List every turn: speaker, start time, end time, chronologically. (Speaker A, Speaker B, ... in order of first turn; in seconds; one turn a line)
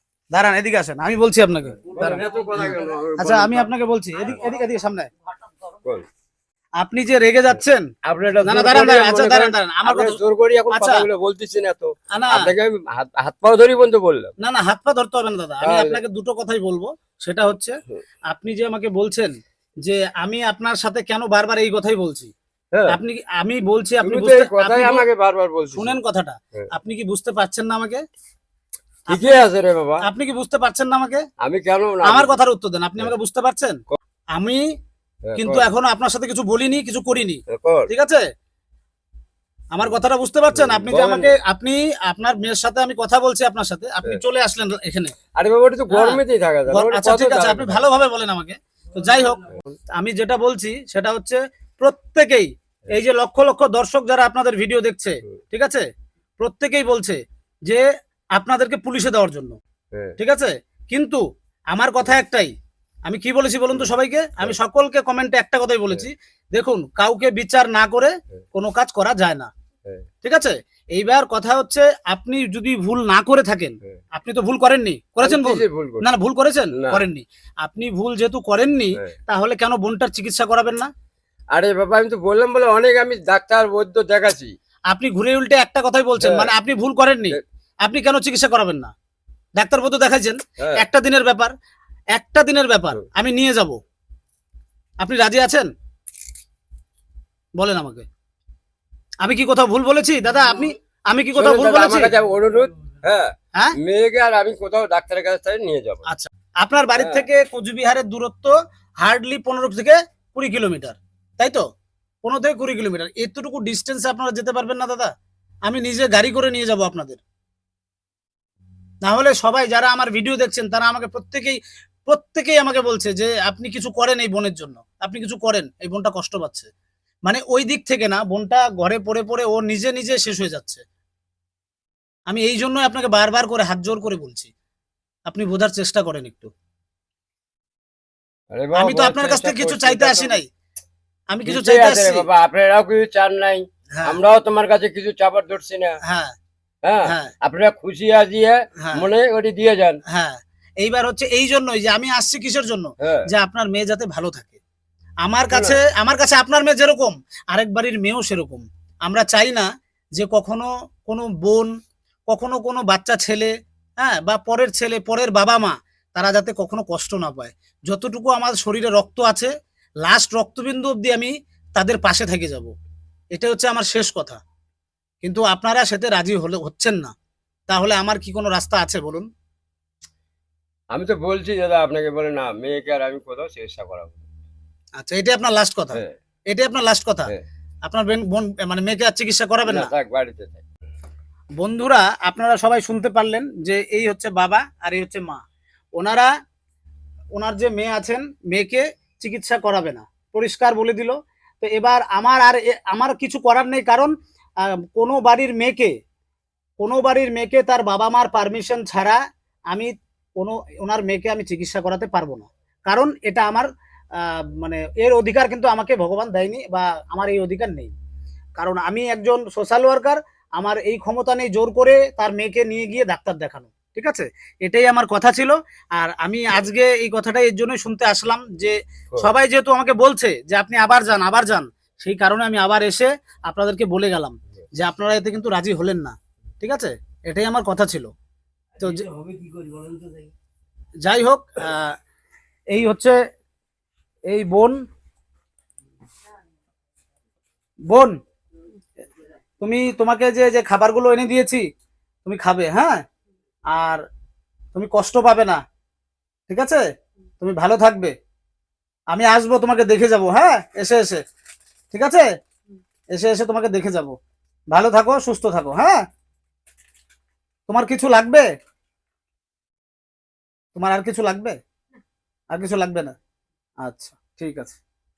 Speaker A: 0.3-5.1
Speaker B: 1.9-3.7
Speaker B: 5.7-6.0
Speaker A: 6.8-7.9
Speaker B: 8.0-14.3
Speaker A: 8.4-11.1
Speaker A: 12.1-12.5
Speaker A: 14.4-17.7
Speaker B: 15.6-16.0
Speaker A: 18.3-22.3
Speaker A: 22.9-25.0
Speaker B: 24.0-26.0
Speaker A: 25.8-28.0
Speaker A: 29.1-29.4
Speaker B: 29.1-30.0
Speaker A: 30.0-31.2
Speaker B: 31.4-32.4
Speaker A: 32.0-33.8
Speaker A: 34.3-34.6
Speaker B: 35.3-35.6
Speaker A: 35.4-38.2
Speaker B: 37.5-37.9
Speaker A: 39.7-45.1
Speaker B: 40.5-41.4
Speaker B: 45.4-47.9
Speaker A: 45.9-55.8
Speaker A: 56.4-57.8
Speaker A: 58.4-59.6
Speaker A: 60.2-61.2
Speaker A: 61.7-62.5
Speaker A: 63.1-69.5
Speaker B: 63.7-64.6
Speaker A: 70.2-80.9
Speaker B: 75.2-76.0
Speaker B: 81.5-84.5
Speaker A: 84.9-88.9
Speaker B: 86.2-86.5
Speaker A: 89.6-91.5
Speaker B: 90.6-90.8
Speaker A: 92.1-93.8
Speaker A: 95.0-95.7
Speaker A: 97.6-98.0
Speaker A: 99.2-102.1
Speaker B: 101.3-106.0
Speaker A: 106.1-111.6
Speaker B: 107.0-107.2
Speaker A: 112.2-115.1
Speaker A: 115.7-117.2
Speaker A: 119.0-126.7
Speaker A: 127.2-130.8
Speaker A: 132.3-134.5
Speaker A: 135.3-136.5
Speaker B: 138.5-140.4
Speaker A: 138.7-140.5
Speaker A: 141.3-142.2
Speaker B: 141.4-146.0
Speaker A: 143.9-144.2
Speaker A: 146.0-146.3
Speaker B: 146.8-150.0
Speaker A: 147.1-147.3
Speaker A: 150.1-154.6
Speaker B: 153.0-153.3
Speaker A: 155.2-161.7
Speaker B: 155.5-155.8
Speaker A: 162.3-169.5
Speaker A: 170.0-172.7
Speaker A: 173.3-174.4
Speaker A: 175.2-177.1
Speaker A: 177.7-179.3
Speaker B: 180.9-184.2
Speaker A: 185.0-187.3
Speaker A: 187.8-189.9
Speaker B: 189.7-190.6
Speaker A: 191.6-195.4
Speaker A: 196.0-196.3
Speaker A: 197.3-204.1
Speaker A: 204.6-205.9
Speaker A: 206.8-209.2
Speaker A: 209.7-217.9
Speaker A: 218.6-238.1
Speaker A: 238.8-239.0
Speaker B: 238.9-240.3
Speaker A: 241.0-241.9
Speaker A: 242.7-243.2
Speaker A: 244.3-244.8
Speaker A: 247.9-248.2
Speaker A: 249.6-251.7
Speaker A: 252.2-253.0
Speaker A: 253.7-254.0
Speaker A: 254.7-255.6
Speaker A: 256.5-256.8
Speaker A: 257.4-258.1
Speaker A: 259.1-261.2
Speaker A: 261.9-262.2
Speaker A: 263.1-264.1
Speaker A: 264.7-266.0
Speaker A: 267.7-268.4
Speaker A: 270.7-271.6
Speaker A: 272.5-273.1
Speaker A: 273.8-274.8